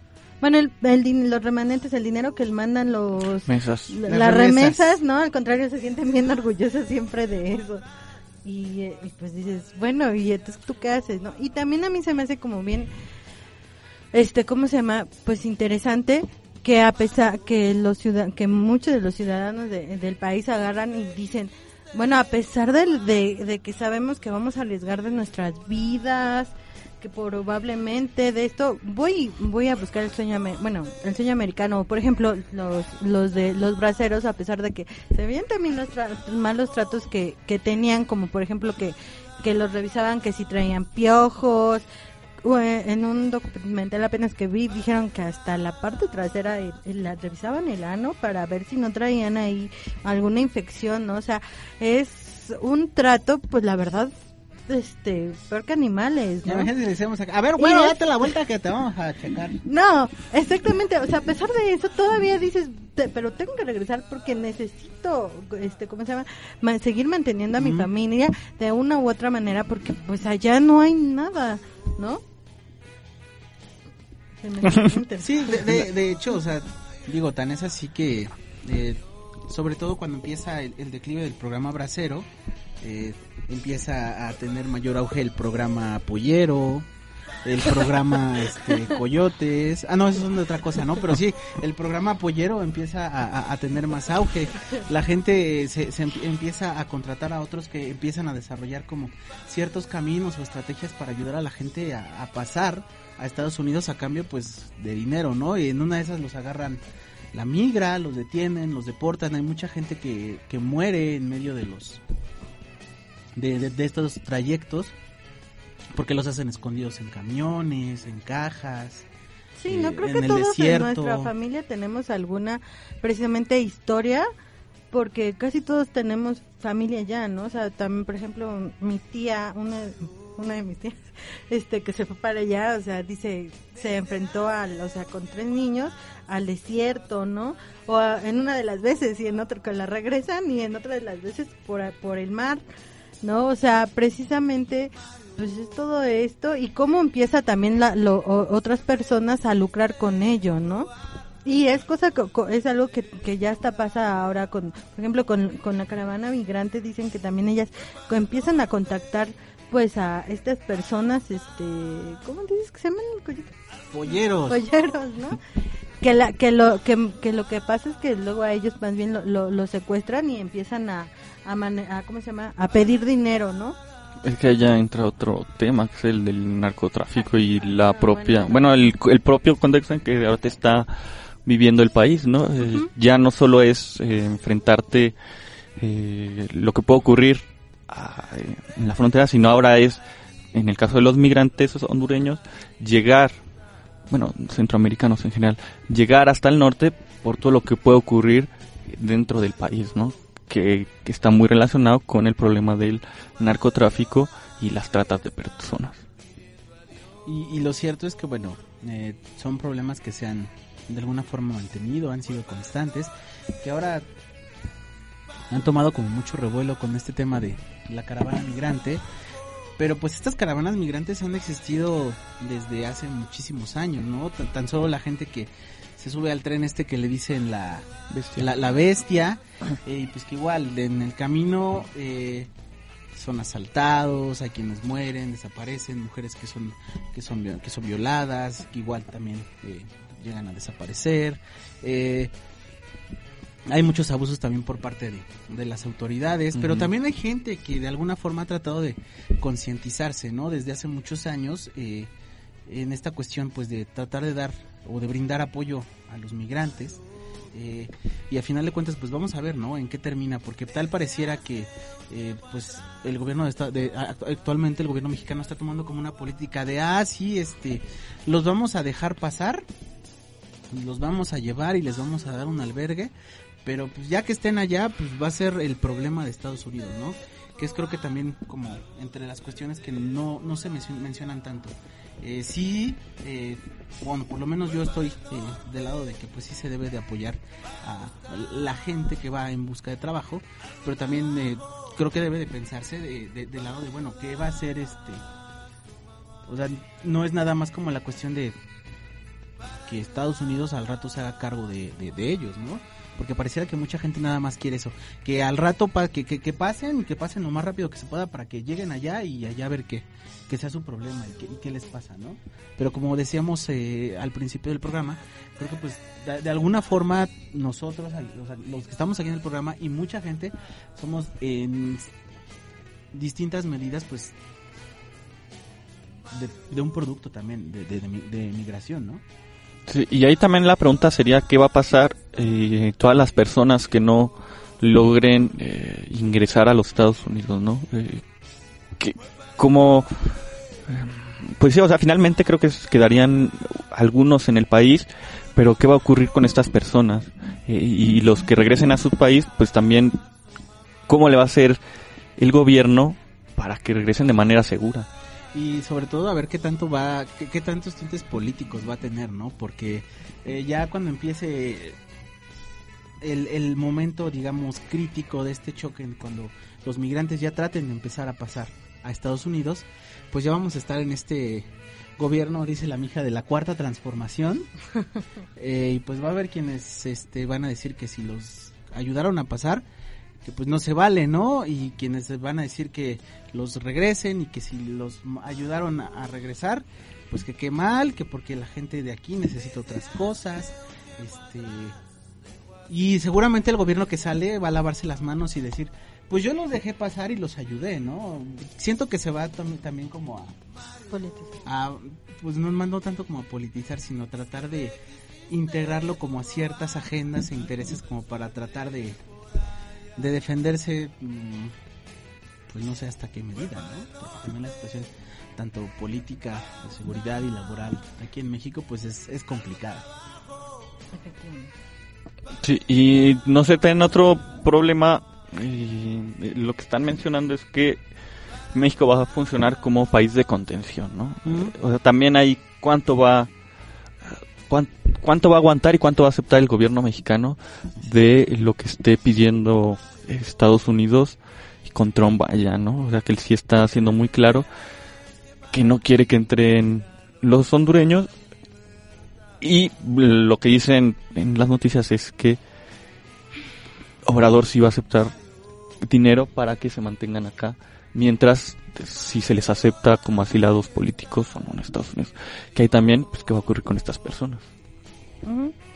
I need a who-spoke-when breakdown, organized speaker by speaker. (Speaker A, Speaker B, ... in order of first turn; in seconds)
Speaker A: 0.4-7.8, 8.4-12.9, 14.1-41.9, 42.4-54.2, 54.7-56.7, 57.6-58.0, 59.7-72.2, 74.4-75.7, 119.6-124.3, 124.9-142.6, 143.2-150.9, 151.4-163.6, 164.5-165.4, 166.0-173.8, 177.2-178.8, 401.1-401.6, 421.1-421.7, 465.4-465.7
Speaker B: 3.5-3.9, 174.2-180.9, 181.4-185.2, 185.8-190.0, 190.5-193.3, 194.1-206.0, 228.1-228.4, 246.6-246.9, 329.9-338.2, 339.0-340.1, 340.9-350.2, 351.1-351.8, 352.4-355.1, 422.6-428.0, 428.7-433.5, 434.3-444.7, 445.7-448.3, 449.6-452.6, 454.2-455.3, 456.0-464.7
Speaker C: 4.0-5.0, 56.5-59.6, 67.6-67.9, 75.2-82.3, 82.8-86.9, 87.4-112.0, 113.3-115.0, 115.9-119.1, 119.7-121.3, 163.9-164.6, 207.2-214.1, 215.5-219.0, 219.8-232.5, 233.1-242.3, 243.7-252.1, 252.7-257.0, 257.5-269.7, 270.7-273.1, 273.6-295.2, 296.4-298.6, 299.9-322.1, 323.1-324.4, 326.3-329.2, 355.5-362.0, 363.2-374.7, 375.6-379.9, 380.4-392.0, 392.9-400.6, 401.6-405.0, 405.5-409.2, 410.2-411.7, 412.7-420.1, 431.4-431.7